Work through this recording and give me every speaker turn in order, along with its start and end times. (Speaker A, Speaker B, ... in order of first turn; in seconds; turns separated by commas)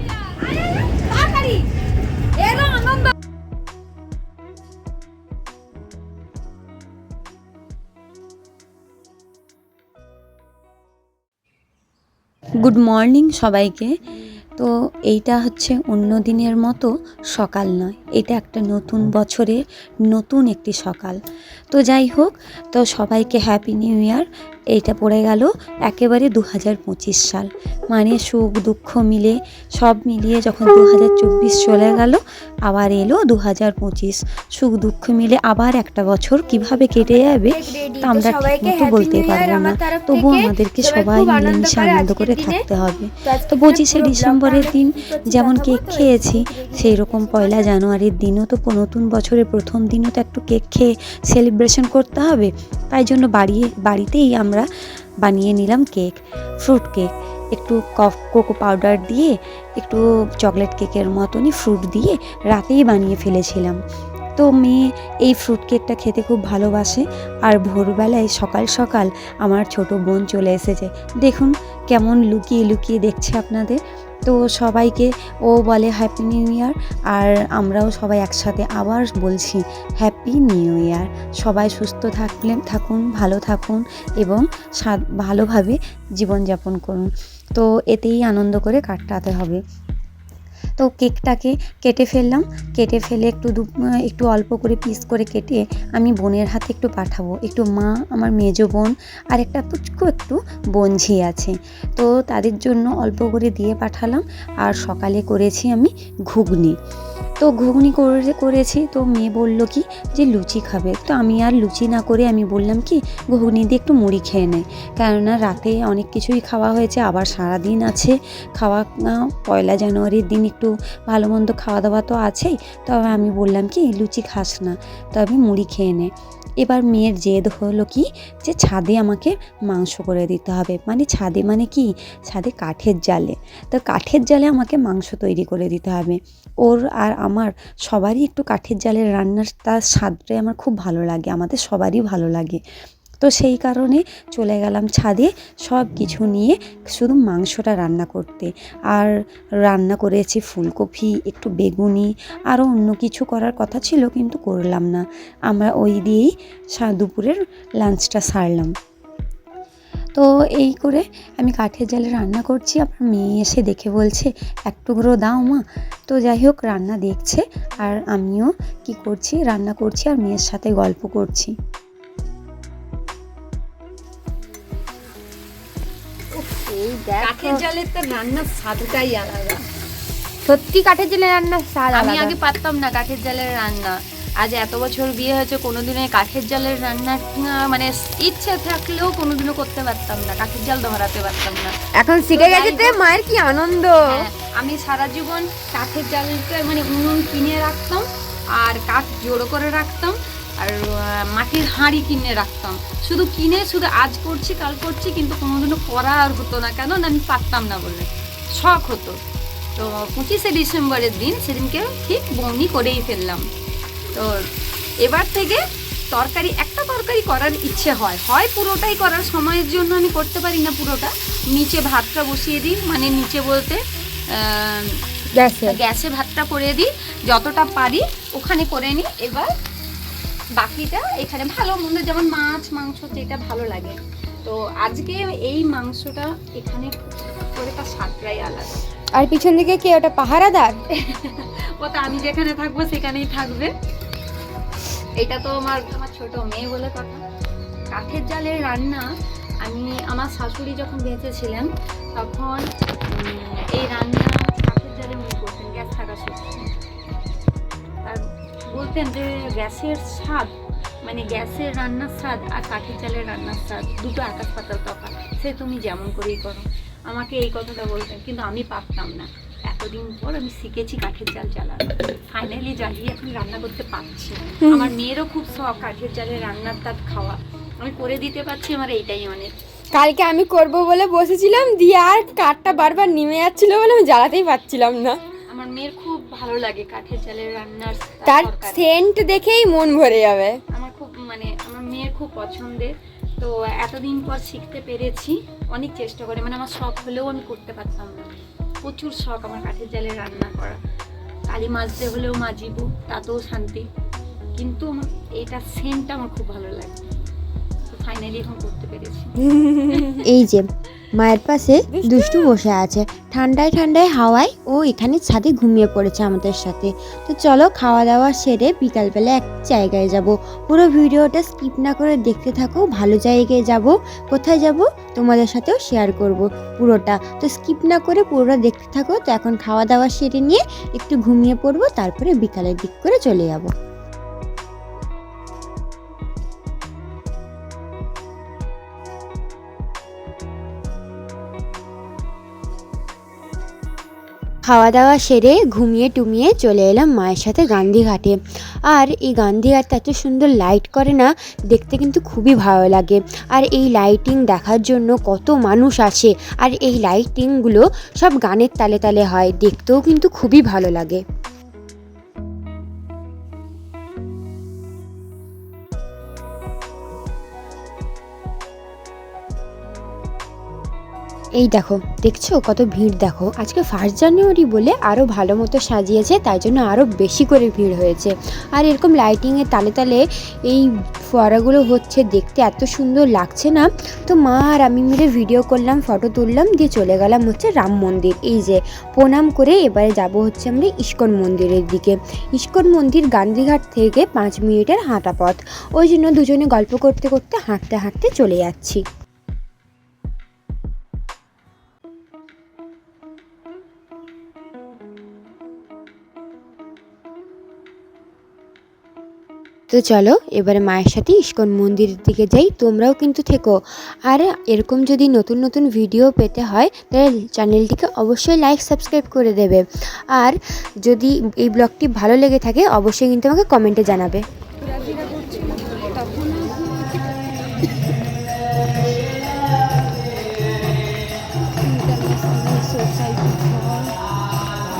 Speaker A: 1.1-1.6, Speaker A: 2.4-3.0, Speaker B: 12.6-13.9, Speaker B: 14.6-21.2, Speaker B: 21.7-54.6, Speaker C: 37.0-42.6, Speaker C: 43.2-47.7, Speaker B: 55.2-63.8, Speaker B: 64.4-89.6, Speaker B: 90.8-106.7, Speaker B: 107.4-126.1, Speaker B: 126.6-142.6, Speaker B: 143.2-149.1, Speaker B: 149.6-158.7, Speaker B: 160.1-171.5, Speaker C: 176.3-177.6, Speaker A: 177.2-179.6, Speaker C: 180.4-182.3, Speaker A: 181.9-191.7, Speaker C: 192.0-194.2, Speaker A: 192.3-193.0, Speaker A: 194.1-198.0, Speaker A: 198.6-209.2, Speaker A: 209.7-213.4, Speaker A: 214.1-214.4, Speaker A: 215.0-215.6, Speaker A: 216.1-223.8, Speaker A: 224.3-225.0, Speaker C: 225.3-225.8, Speaker A: 225.7-229.5, Speaker A: 230.6-238.8, Speaker C: 239.1-240.8, Speaker A: 241.0-243.7, Speaker A: 245.2-247.2, Speaker A: 247.9-249.0, Speaker A: 249.6-256.6, Speaker A: 258.0-260.5, Speaker A: 261.0-279.5, Speaker C: 274.6-274.9, Speaker C: 279.9-285.2, Speaker A: 285.5-288.8, Speaker C: 288.2-290.6, Speaker A: 290.7-298.3, Speaker A: 298.8-300.8, Speaker A: 301.5-303.8, Speaker A: 304.6-307.1, Speaker A: 307.9-310.2, Speaker C: 310.2-333.7, Speaker C: 344.6-348.4, Speaker C: 348.9-361.2, Speaker C: 371.6-399.0, Speaker C: 409.9-413.7, Speaker C: 414.3-424.4, Speaker C: 426.1-427.8, Speaker C: 431.8-434.1